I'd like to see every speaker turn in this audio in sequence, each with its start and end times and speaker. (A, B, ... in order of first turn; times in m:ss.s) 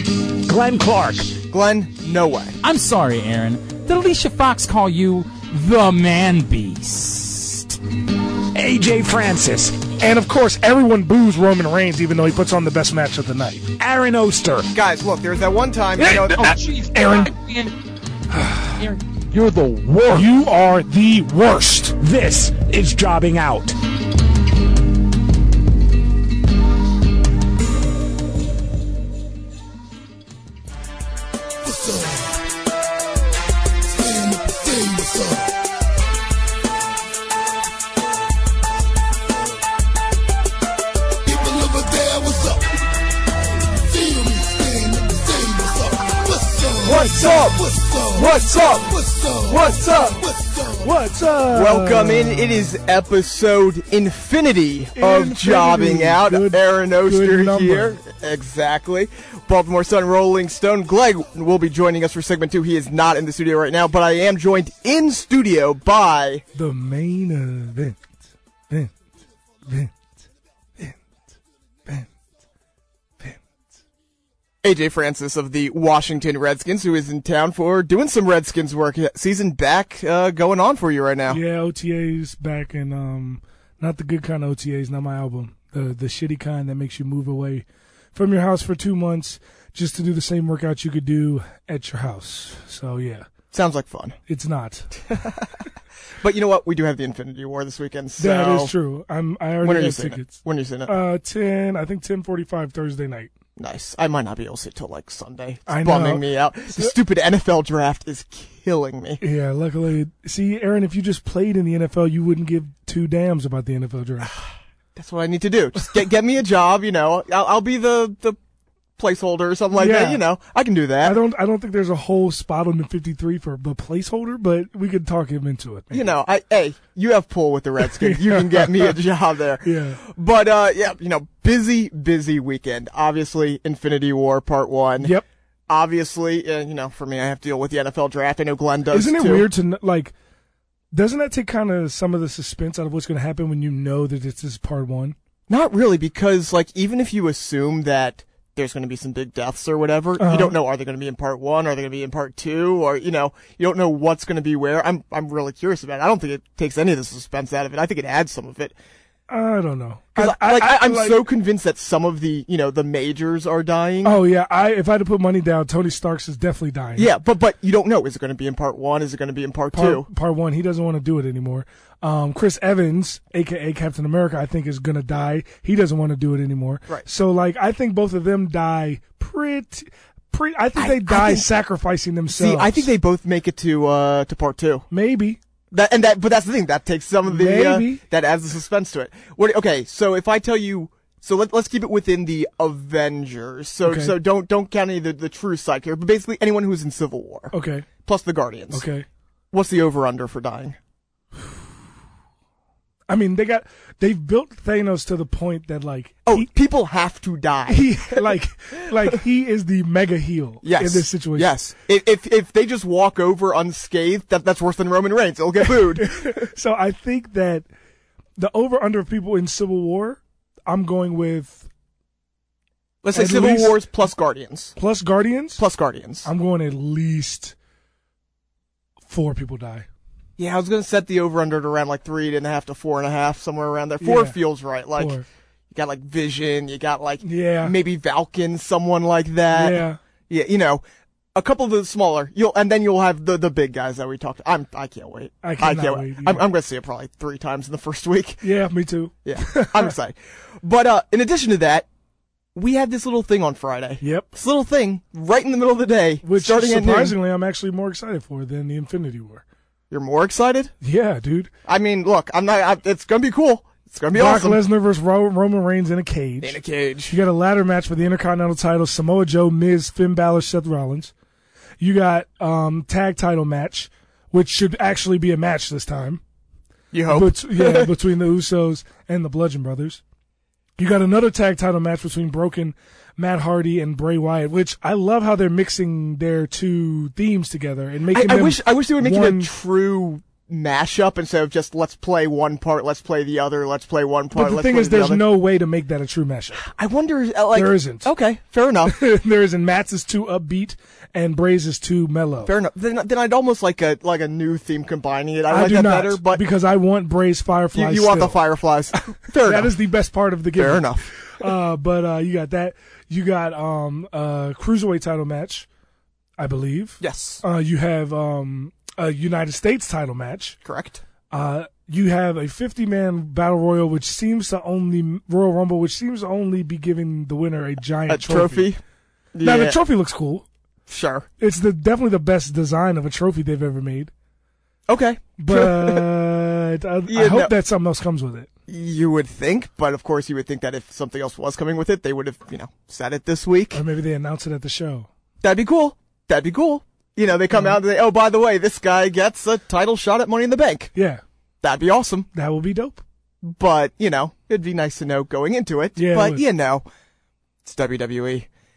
0:00.4-0:01.4 A
0:01.5-0:02.6 B
0:02.6-0:07.8 C
0:08.5-0:09.8 A
0:10.0-0:13.7 D
0:13.8-0:14.7 A
0:14.7-0:16.6 B
0:16.0-0:16.4 D
0:16.2-0:17.8 C
0:16.9-0:17.3 D
0:18.3-0:18.7 D
0:19.3-0:22.0 D
0:22.0-0:23.8 A
0:31.6-0:32.4 A
0:33.9-0:35.6 A
0:41.2-0:42.7 A
0:43.7-0:50.9 A
0:46.8-0:49.0 B
0:49.5-0:50.2 B
0:50.8-0:52.7 D
0:51.5-1:06.4 B
0:55.0-0:58.0 D
1:06.6-1:08.0 D
1:09.7-1:10.0 D
1:14.6-1:21.4 B
1:21.3-1:33.3 D
1:33.5-1:34.2 B
1:34.3-1:34.9 D
1:35.1-1:35.5 B
1:36.2-1:38.7 B
1:38.2-1:43.3 D
1:39.6-1:41.0 B
1:43.6-1:49.2 B
1:45.7-1:46.2 D
1:49.2-1:54.3 D
1:55.0-1:58.4 B
1:59.0-2:01.2 B
1:59.8-2:00.2 D
2:01.0-2:06.1 D
2:05.9-2:15.2 B
2:07.8-2:09.0 D
2:09.6-2:10.0 D
2:15.7-2:19.5 B
2:18.9-2:20.1 D
2:20.9-2:25.2 D
2:25.5-2:38.8 B
2:30.2-2:30.6 D
2:39.3-2:41.2 D
2:40.2-2:44.2 B
2:44.0-2:47.1 D
2:47.0-2:50.1 B
2:49.7-3:02.9 D
3:00.8-3:01.5 B
3:02.3-3:04.9 B
3:04.9-3:05.4 D
3:05.7-3:17.5 B
3:07.3-3:08.0 D
3:13.8-3:14.2 D
3:17.5-3:17.9 D
3:18.0-3:18.9 B
3:18.7-3:19.1 D
3:19.5-3:20.8 B
3:23.1-3:26.5 D
3:26.3-3:28.3 B
3:27.7-3:31.6 D
3:30.6-3:36.5 B
3:36.0-3:37.7 D
3:38.4-3:41.7 D
3:43.0-3:44.7 B
3:43.1-3:43.8 D
3:44.8-3:45.6 D
3:45.6-3:46.3 B
3:46.2-3:47.6 D
3:49.1-3:49.9 D
3:50.4-3:55.2 B
3:54.0-3:54.4 D
3:55.0-3:55.3 D
3:55.7-4:00.8 B
3:57.2-3:57.8 D
3:59.5-4:00.0 D
4:01.4-4:08.4 B
4:05.4-4:06.4 D
4:08.4-4:09.9 D
4:09.2-4:11.9 B
4:12.6-4:17.2 B
4:14.0-4:14.3 D
4:16.2-4:19.4 D
4:19.9-4:20.7 B
4:20.8-4:21.5 D
4:21.7-4:24.6 B
4:24.1-4:26.6 D
4:26.4-4:27.2 B
4:27.1-4:31.1 D
4:31.8-4:36.2 D
4:36.9-4:37.9 B
4:37.1-4:40.0 D
4:40.8-4:49.5 D
4:48.1-4:55.3 B
4:54.3-4:56.6 D
4:56.6-4:59.0 B
4:57.5-4:58.1 D
4:58.9-5:02.5 D
5:02.4-5:06.4 B
5:05.5-5:08.4 D
5:07.7-5:09.8 B
5:08.9-5:15.7 D
5:10.5-5:11.1 B
5:16.4-5:20.6 D
5:17.0-5:17.4 B
5:20.6-5:21.0 B
5:21.3-5:28.7 D
5:28.1-5:28.8 B
5:29.4-5:29.8 B
5:29.4-5:30.5 D
5:30.9-5:31.3 B
5:31.4-5:34.1 D
5:34.9-5:36.1 B
5:35.4-5:38.5 D
5:37.1-5:37.5 B
5:38.7-5:43.8 B
5:43.7-5:45.1 D
5:45.4-5:50.9 B
5:47.5-5:47.8 D
5:50.9-5:51.2 D
5:51.6-5:52.3 B
5:52.3-5:53.0 D
5:53.4-5:56.8 B
5:56.0-5:56.4 D
5:57.6-5:58.5 B